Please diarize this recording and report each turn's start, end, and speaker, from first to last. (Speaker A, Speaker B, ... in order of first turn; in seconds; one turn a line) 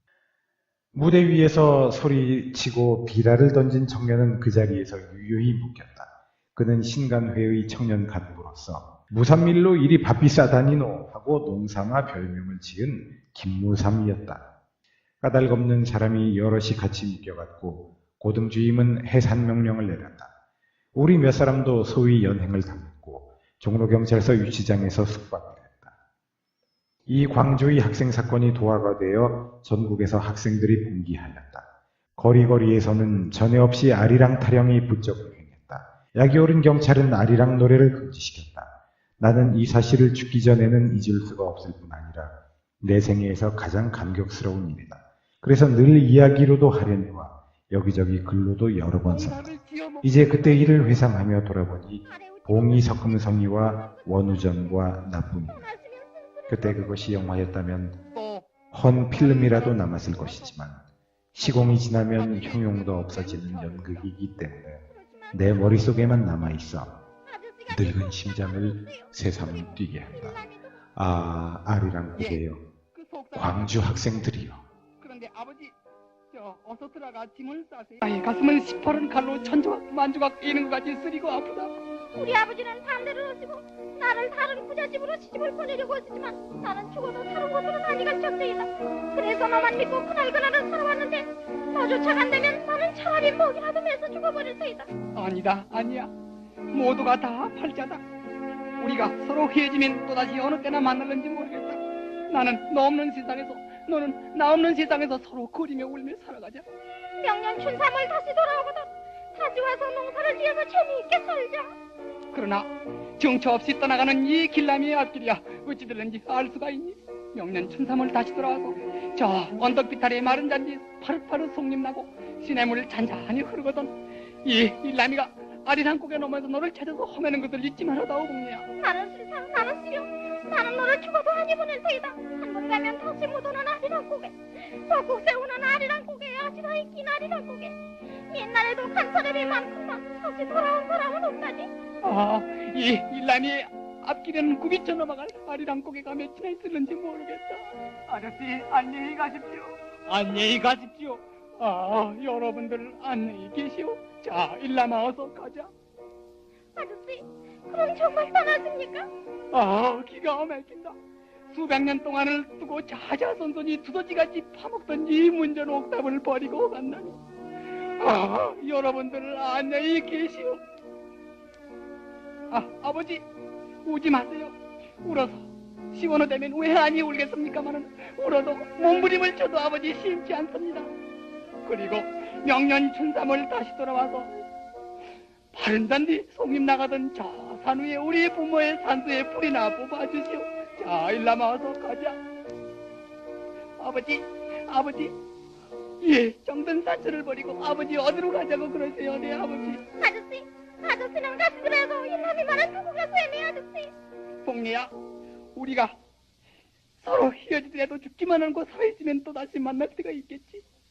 Speaker A: 0.9-14.4
Speaker A: 15.2-20.3
Speaker A: 20.9-25.9
Speaker A: 27.1-49.5
Speaker B: 49.1-50.8
Speaker A: 50.0-55.7
Speaker C: 52.1-52.9
Speaker C: 55.6-56.6
Speaker A: 56.5-58.0
Speaker B: 58.1-58.5
Speaker A: 58.7-60.8
Speaker B: 59.2-60.3
Speaker A: 61.3-66.9
Speaker B: 61.4-64.1
Speaker C: 65.0-65.3
Speaker C: 67.3-69.5
Speaker A: 67.7-70.4
Speaker C: 70.0-70.7
Speaker A: 71.0-72.6
Speaker B: 72.2-72.4
Speaker B: 72.9-73.8
Speaker A: 73.3-74.6
Speaker B: 75.0-75.8
Speaker B: 76.3-81.7
Speaker C: 82.1-94.9
Speaker B: 95.1-96.1
Speaker B: 96.7-98.0
Speaker B: 98.8-106.6
Speaker C: 107.2-111.8
Speaker B: 112.3-128.7
Speaker C: 128.8-137.8
Speaker C: 138.3-141.7
Speaker B: 142.0-155.7
Speaker C: 156.8-159.1
Speaker B: 159.5-161.0
Speaker B: 161.5-167.2
Speaker B: 168.0-170.6
Speaker B: 172.5-173.2
Speaker B: 173.8-180.9
Speaker B: 181.7-184.3
Speaker B: 185.5-192.2
Speaker B: 193.8-195.2
Speaker B: 196.0-199.9
Speaker C: 200.0-203.9
Speaker B: 204.4-204.9
Speaker B: 205.6-205.9
Speaker B: 207.0-210.6